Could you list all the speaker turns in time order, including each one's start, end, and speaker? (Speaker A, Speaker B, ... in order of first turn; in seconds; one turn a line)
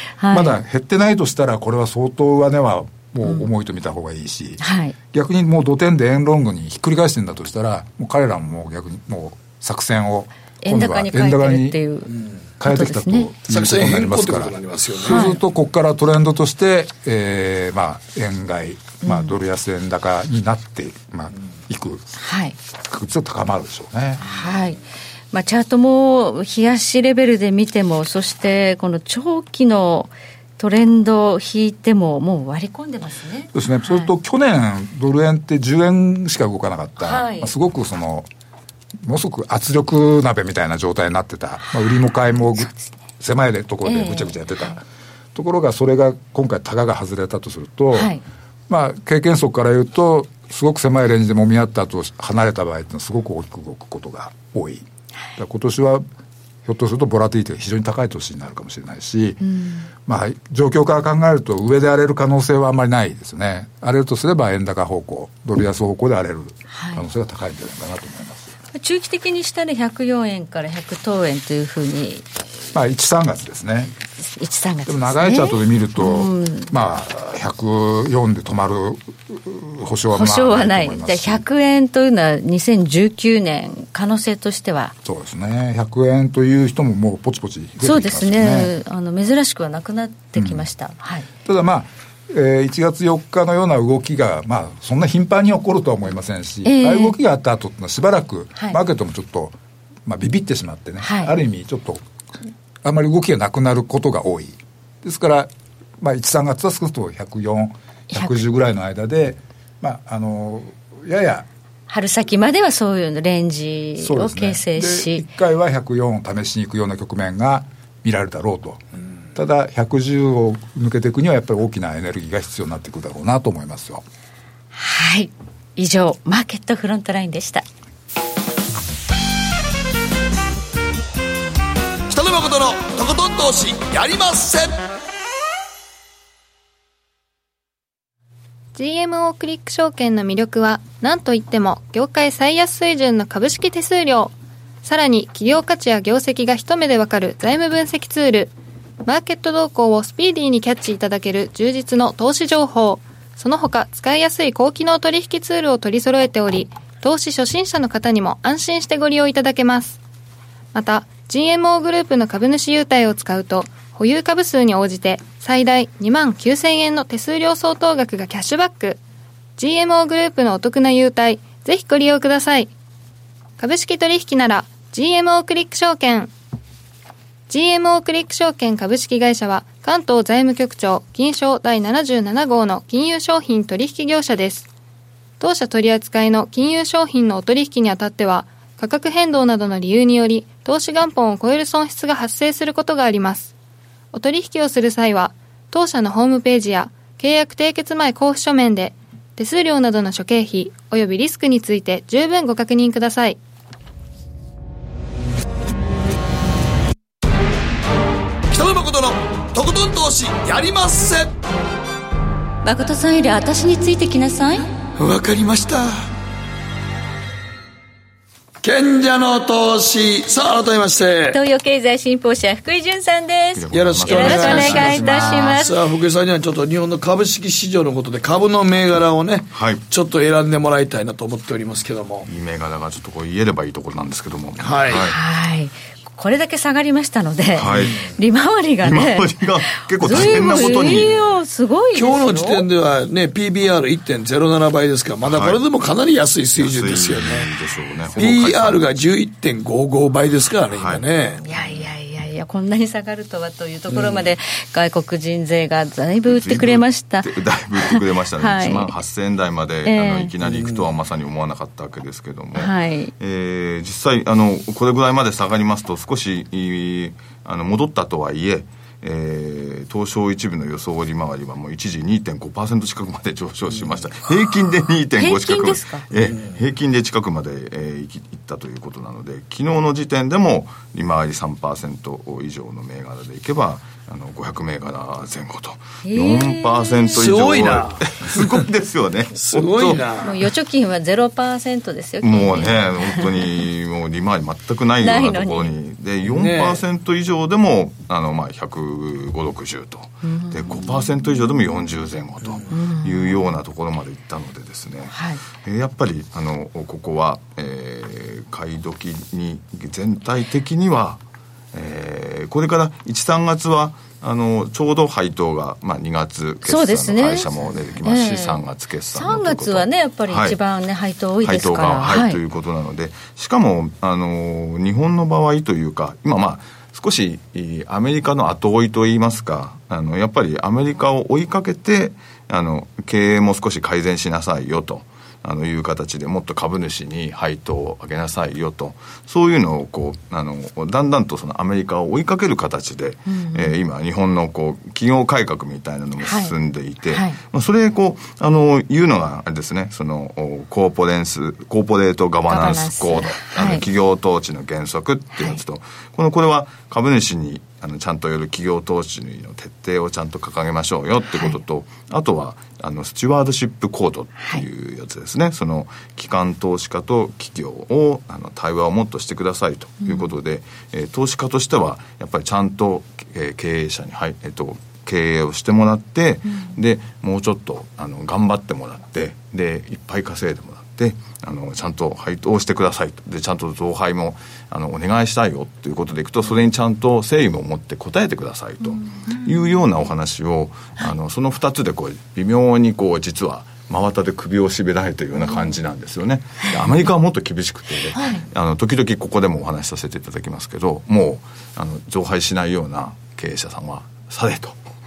Speaker A: 0.2-0.6
Speaker B: 0.3-4.6
Speaker A: 4.6-4.9
Speaker B: 5.1-11.8
Speaker A: 10.6-12.1
Speaker B: 12.6-22.1
Speaker A: 12.6-13.3
Speaker C: 13.5-15.3
Speaker A: 15.1-15.4
Speaker A: 19.0-19.3
Speaker A: 22.2-22.6
Speaker B: 22.8-24.3
Speaker A: 24.2-34.1
Speaker B: 33.5-38.3
Speaker A: 37.0-37.5
Speaker B: 39.0-44.8
Speaker A: 43.8-44.8
Speaker B: 45.3-48.1
Speaker A: 47.9-48.2
Speaker B: 48.7-56.0
Speaker B: 56.6-59.4
Speaker A: 59.4-59.9
Speaker B: 60.0-68.5
Speaker A: 66.7-67.0
Speaker A: 68.7-72.2
Speaker B: 72.7-73.9
Speaker A: 74.2-76.7
Speaker B: 74.9-81.4
Speaker A: 80.1-84.9
Speaker B: 85.0-88.7
Speaker A: 87.8-91.2
Speaker B: 90.4-90.7
Speaker B: 91.4-102.0
Speaker A: 96.6-97.1
Speaker A: 101.0-101.3
Speaker B: 102.8-111.5
Speaker A: 108.1-108.4
Speaker A: 111.9-115.2
Speaker B: 114.0-118.8
Speaker B: 119.3-124.0
Speaker A: 124.7-127.7
Speaker C: 132.1-134.8
Speaker D: 138.7-148.5
Speaker D: 149.1-160.0
Speaker D: 160.7-169.0
Speaker D: 169.6-172.7
Speaker D: 173.6-176.3
Speaker D: 177.5-184.7
Speaker D: 185.4-193.5
Speaker D: 194.1-203.4
Speaker C: 208.5-211.3
Speaker A: 212.6-214.7
Speaker C: 215.0-216.1
Speaker C: 218.6-221.4
Speaker A: 221.3-225.8
Speaker E: 223.6-225.5
Speaker C: 223.7-232.3
Speaker E: 229.5-229.8
Speaker E: 232.2-235.2
Speaker C: 234.6-235.1
Speaker A: 234.9-242.6
Speaker E: 237.6-238.1
Speaker C: 237.7-238.1
Speaker E: 238.8-241.1
Speaker C: 240.0-241.3
Speaker C: 241.9-247.5
Speaker E: 245.2-245.6
Speaker E: 246.6-248.9
Speaker C: 248.2-251.4
Speaker E: 250.7-251.0
Speaker A: 251.4-258.9
Speaker C: 253.9-254.3
Speaker E: 256.3-290.1
Speaker A: 259.9-260.3
Speaker C: 260.4-260.8
Speaker A: 262.6-263.1
Speaker A: 275.2-276.1
Speaker C: 276.3-276.6
Speaker A: 286.1-287.2
Speaker C: 287.1-288.5
Speaker C: 289.4-290.4
Speaker A: 290.2-293.6
Speaker E: 292.2-311.2
Speaker A: 295.0-295.7
Speaker C: 296.2-296.8
Speaker A: 300.2-300.9
Speaker A: 302.7-303.4
Speaker A: 305.1-305.4
Speaker E: 311.7-320.6
Speaker A: 316.6-322.4
Speaker E: 321.4-404.8
Speaker A: 343.3-343.7
Speaker A: 346.2-346.5
Speaker A: 347.1-347.4
Speaker A: 352.5-353.8
Speaker A: 361.3-361.6
Speaker A: 370.0-370.3